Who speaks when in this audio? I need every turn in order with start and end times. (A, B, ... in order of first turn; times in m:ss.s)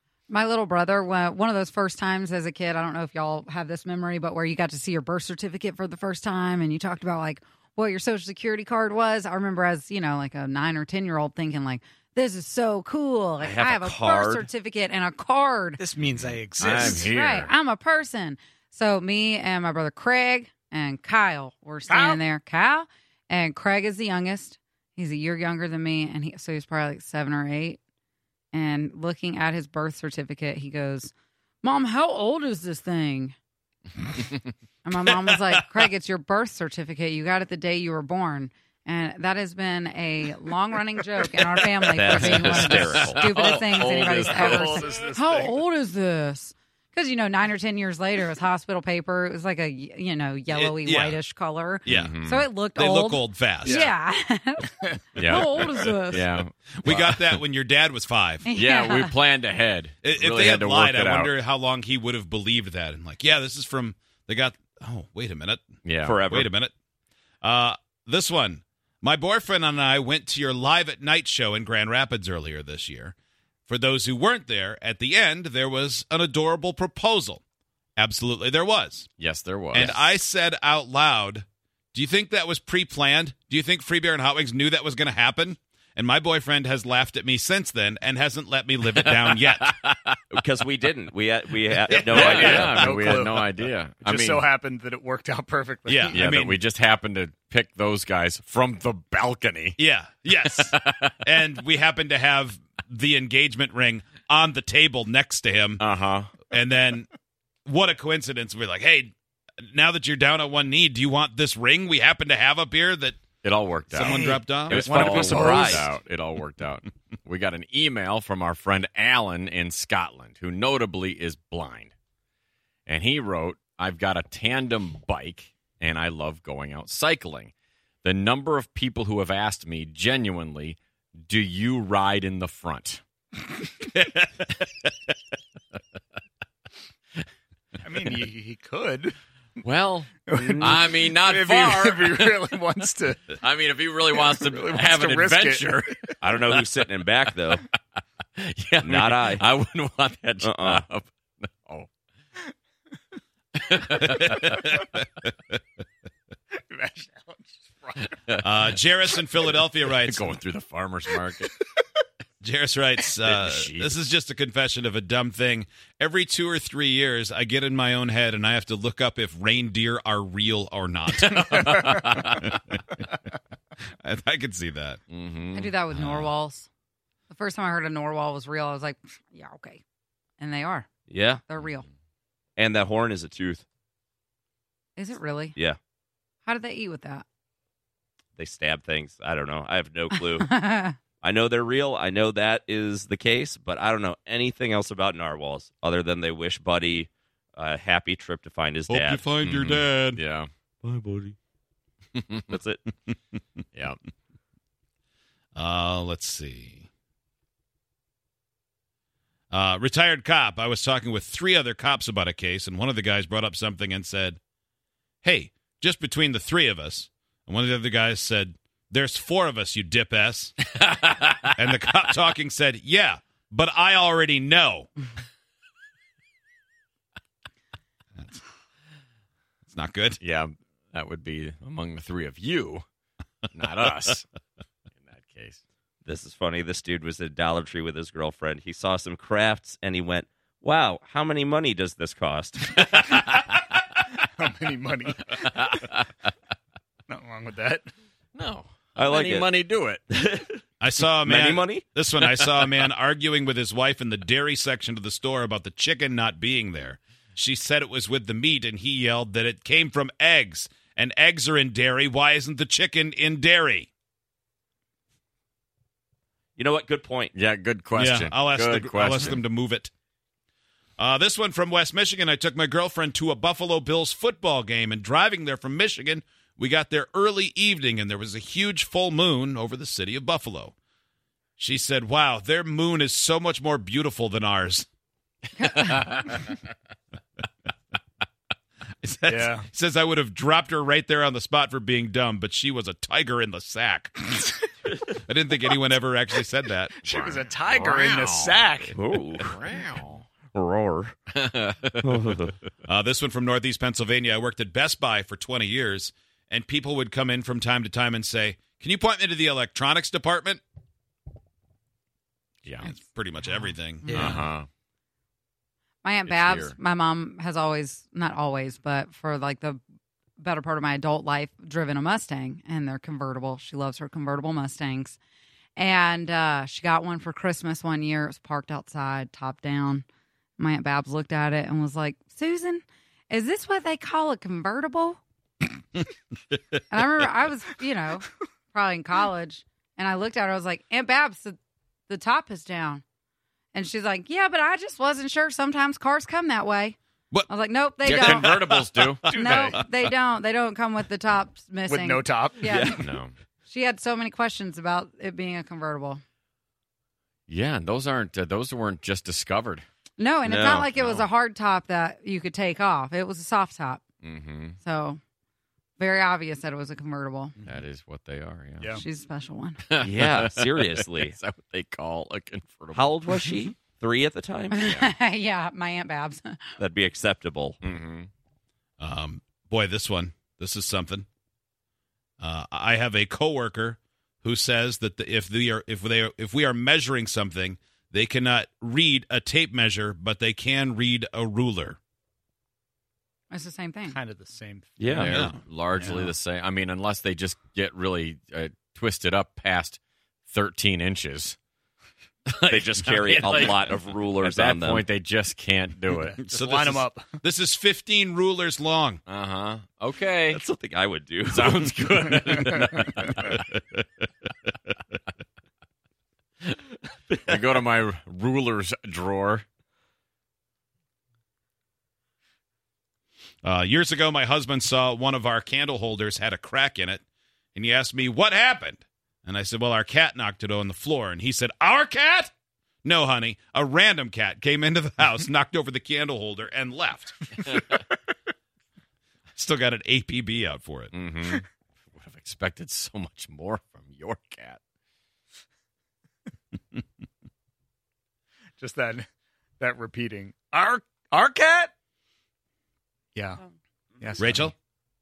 0:00.3-0:15.8 A
0:13.4-0:14.5 B
0:15.8-0:17.1 C
0:16.6-0:17.5 D
0:16.6-0:27.8 A
0:21.9-0:22.2 C
0:28.5-0:33.3 A
0:34.8-0:56.3 A
0:41.9-0:43.4 B
0:42.1-0:45.0 D
0:44.2-0:45.6 C
0:50.5-0:51.2 E
0:51.8-0:52.5 D
0:52.8-0:53.8 E
0:53.6-0:53.9 C
0:54.8-0:55.7 C
0:55.2-0:57.4 D
0:56.8-0:58.5 E
0:58.4-0:59.1 A
0:58.5-1:01.3 D
1:00.0-1:05.7 E
1:05.8-1:06.2 D
1:06.0-1:06.5 B
1:06.3-1:06.7 E
1:07.4-1:13.1 E
1:13.7-1:17.4 E
1:18.0-1:19.1 E
1:19.2-1:20.2 D
1:19.7-1:29.7 E
1:28.9-1:30.2 D
1:30.3-1:32.8 B
1:31.9-1:32.8 E
1:31.9-1:33.5 C
1:31.9-1:34.4 D
1:34.0-1:36.4 C
1:35.9-1:36.5 E
1:36.1-1:39.8 D
1:39.8-1:45.8 E
1:40.4-1:41.2 D
1:45.8-1:46.3 D
1:46.5-1:47.1 E
1:47.7-1:49.1 E
1:49.7-1:53.2 E
1:53.4-2:01.9 D
1:53.9-1:54.9 E
1:53.9-1:55.8 C
1:54.7-1:55.9 B
2:02.9-2:13.0 D
2:13.8-2:14.5 E
2:17.8-2:19.1 C
2:19.6-2:22.4 D
2:20.2-2:23.3 C
2:20.4-2:20.8 B
2:23.4-2:26.6 D
2:24.1-2:26.2 C
2:26.2-2:27.6 B
2:28.4-2:31.9 D
2:28.8-2:29.4 B
2:30.4-2:30.8 B
2:33.6-2:34.6 D
2:34.0-2:34.6 E
2:36.5-2:38.2 C
2:38.4-2:40.2 E
2:39.8-2:41.5 D
2:42.4-2:52.8 E
2:43.2-2:43.9 D
2:51.2-2:52.3 D
2:54.0-2:55.0 E
2:55.1-2:56.3 D
2:55.5-2:56.7 A
2:57.3-2:59.8 A
3:00.4-3:00.9 A
3:01.1-3:01.4 B
3:01.5-3:01.8 A
3:02.6-3:03.6 B
3:05.0-3:05.6 A
3:06.4-3:07.2 A
3:08.4-3:10.5 B
3:10.4-3:11.0 A
3:11.2-3:19.2 B
3:18.9-3:20.2 E
3:19.4-3:20.5 D
3:20.8-3:21.3 E
3:22.1-3:22.5 D
3:22.5-3:22.8 B
3:25.5-3:26.8 E
3:29.5-3:34.4 E
3:35.2-3:40.5 E
3:40.8-3:41.5 D
3:41.6-3:44.9 E
3:49.6-3:50.2 E
3:50.2-3:52.8 D
3:53.5-3:54.3 D
3:55.0-3:55.6 D
3:56.0-4:02.8 B
4:04.4-4:05.3 C
4:05.3-4:06.1 D
4:07.1-4:07.9 C
4:08.3-4:10.0 D
4:09.0-4:09.5 B
4:10.1-4:10.6 B
4:10.8-4:23.9 E
4:11.1-4:11.8 B
4:12.2-4:12.9 D
4:26.6-4:27.3 B
4:27.3-4:29.4 D
4:28.0-4:29.9 E
4:31.0-4:40.7 E
4:41.6-4:44.8 E
4:45.7-4:46.1 E
4:49.0-4:54.4 E
4:49.3-4:49.7 C
4:55.2-4:57.0 E
4:57.0-5:00.2 D
4:57.0-4:59.0 C
4:58.9-4:59.6 B
5:00.5-5:01.1 B
5:01.4-5:02.1 D
5:02.0-5:02.6 B
5:02.8-5:10.6 E
5:12.8-5:14.2 E
5:14.0-5:14.4 C
5:14.1-5:14.7 D
5:16.0-5:19.8 A
5:16.2-5:16.7 D
5:20.4-5:25.2 A
5:25.8-5:30.0 A
5:30.6-5:35.2 A
5:36.8-5:43.0 A
5:43.7-5:47.0 A
5:47.5-5:48.6 A
5:48.0-5:49.3 D
5:48.0-5:48.8 E
5:49.2-5:49.8 C
5:49.3-5:53.0 A
5:51.9-5:52.8 C
5:52.6-5:53.0 B
5:53.0-5:53.3 D
5:53.6-5:56.2 A
5:57.5-5:59.8 D
6:00.2-6:04.0 A
6:00.4-6:00.9 B
6:04.2-6:04.8 D
6:04.8-6:05.2 A
6:06.0-6:07.5 A
6:07.6-6:09.0 D
6:08.9-6:09.8 A
6:09.8-6:13.6 D
6:10.0-6:11.3 B
6:12.9-6:14.8 B
6:14.7-6:16.6 A
6:14.8-6:15.1 D
6:16.8-6:17.8 B
6:17.8-6:18.3 D
6:19.0-6:21.2 E
6:22.4-6:32.0 E
6:33.5-6:34.2 A
6:34.1-6:35.2 C
6:35.0-6:35.4 B
6:35.1-6:41.6 D
6:35.2-6:35.6 E
6:42.5-6:46.3 D
6:42.7-6:45.0 B
6:46.2-6:47.4 C
6:46.4-6:49.2 E
6:49.3-6:50.6 D
6:50.5-6:52.2 B
6:51.4-6:53.6 D
6:52.3-6:52.8 C
6:53.4-6:54.0 B
6:57.3-6:57.7 B
6:57.4-6:59.6 D
7:03.6-7:07.2 E
7:07.7-7:12.5 E
7:13.0-7:17.7 E
7:19.6-7:21.1 E
7:21.1-7:24.8 D
7:28.8-7:29.3 C
7:29.8-7:31.9 C
7:33.3-7:33.6 C
7:34.2-7:34.7 C
7:34.4-7:34.7 E